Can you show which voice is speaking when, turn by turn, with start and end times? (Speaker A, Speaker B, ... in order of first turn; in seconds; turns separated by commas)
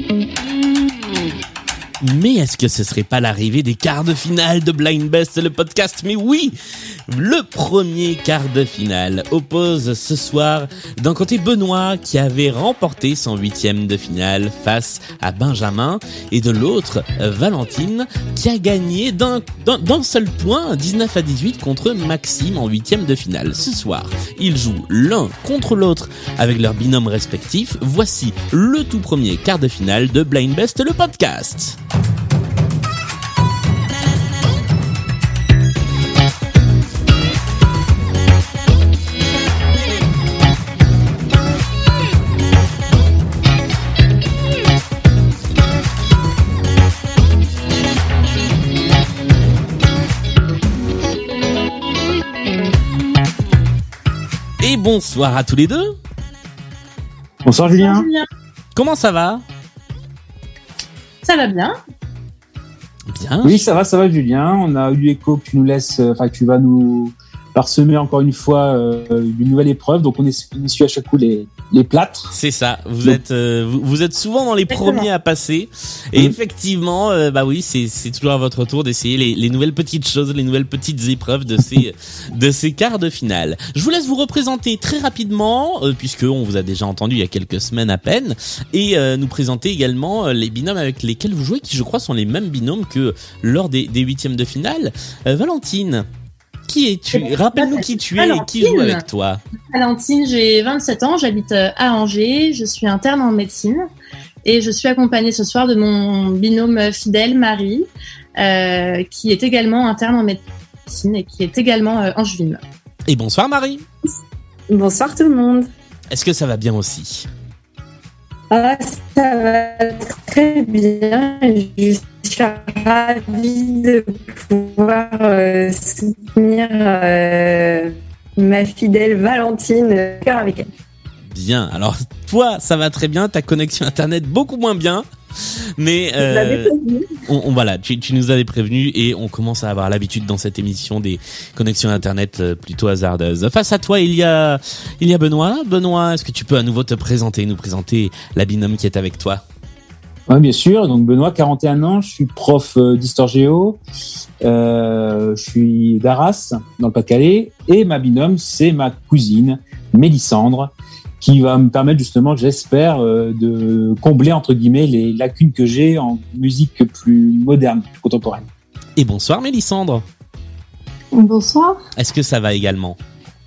Speaker A: 2.0-6.5, Speaker A: 7.1-31.8, Speaker A: 54.6-56.0, Speaker B: 57.4-58.1, Speaker C: 57.7-58.3, Speaker A: 58.8-59.4, Speaker C: 61.2-61.8, Speaker A: 63.1-63.6, Speaker B: 63.4-72.3, Speaker A: 72.3-96.1, Speaker C: 74.7-75.1, Speaker A: 96.7-99.4, Speaker C: 97.2-99.0, Speaker C: 99.7-103.9, Speaker C: 104.4-112.6, Speaker A: 113.1-113.8, Speaker D: 114.7-115.7, Speaker A: 116.1-117.3, Speaker D: 118.5-130.7, Speaker A: 131.3-136.7, Speaker D: 136.2-137.2, Speaker A: 137.3-149.4, Speaker B: 150.3-153.8, Speaker B: 154.4-168.5, Speaker A: 168.9-170.0, Speaker D: 171.1-171.8, Speaker A: 171.9-173.0